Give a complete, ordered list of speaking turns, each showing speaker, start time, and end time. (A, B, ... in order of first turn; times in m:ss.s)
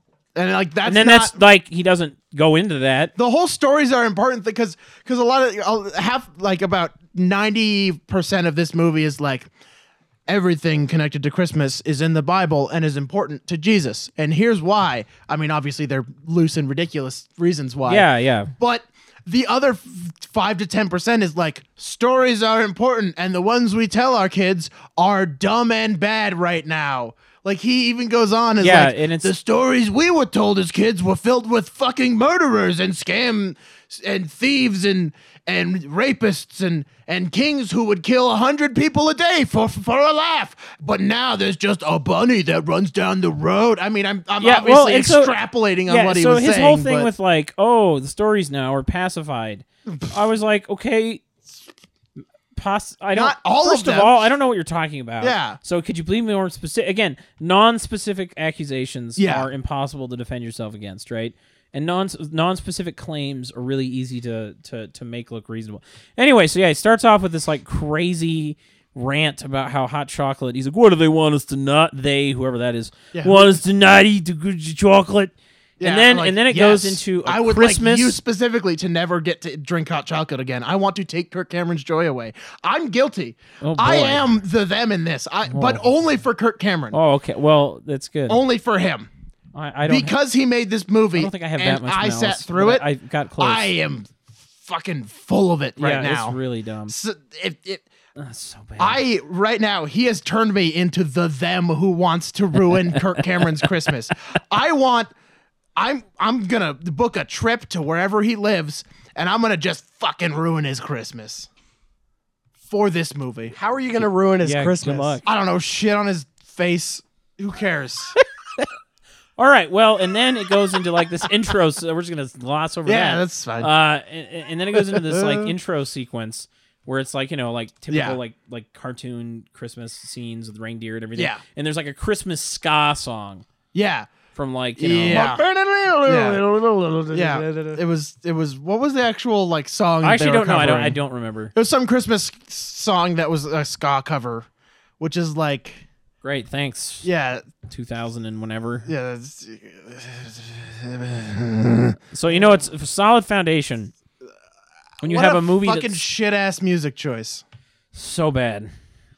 0:00.4-0:01.4 A
0:00.8-0:03.1 B
0:03.2-0:09.5 A
0:10.3-0:47.1 A
0:17.9-0:18.5 B
0:28.6-0:29.3 B
0:44.4-0:45.3 B
0:45.9-0:51.2 B
0:49.9-0:50.1 A
0:52.6-1:18.2 B
0:53.1-0:54.3 A
0:55.2-0:55.6 A
0:59.2-0:59.5 A
1:13.1-1:13.6 A
1:15.8-1:27.0 A
1:23.6-1:24.3 B
1:25.5-1:25.8 B
1:26.9-1:28.4 B
1:28.3-1:29.1 A
1:29.6-1:30.1 B
1:29.9-1:32.9 A
1:31.2-1:33.7 B
1:33.4-1:37.8 A
1:35.8-1:36.9 B
1:38.2-1:39.0 B
1:38.8-1:45.1 A
1:45.8-1:51.5 A
1:52.7-1:53.6 A
1:53.5-1:55.2 C
1:54.4-1:55.2 B
1:55.2-1:58.2 A
1:59.4-2:13.4 B
2:02.9-2:03.7 A
2:04.8-2:05.5 A
2:07.9-2:08.2 A
2:11.2-2:11.4 A
2:13.7-2:14.1 A
2:14.3-2:15.3 B
2:14.8-2:15.4 A
2:15.1-2:17.8 C
2:16.1-2:16.4 A
2:17.1-2:21.0 A
2:20.0-2:21.5 B
2:21.5-2:24.5 A
2:25.0-2:25.9 A
2:26.2-2:27.1 B
2:27.0-2:27.4 A
2:27.7-2:28.9 B
2:28.9-2:32.0 A
2:32.1-2:33.9 B
2:35.0-2:37.4 A
2:35.0-2:36.0 B
2:37.9-2:38.7 B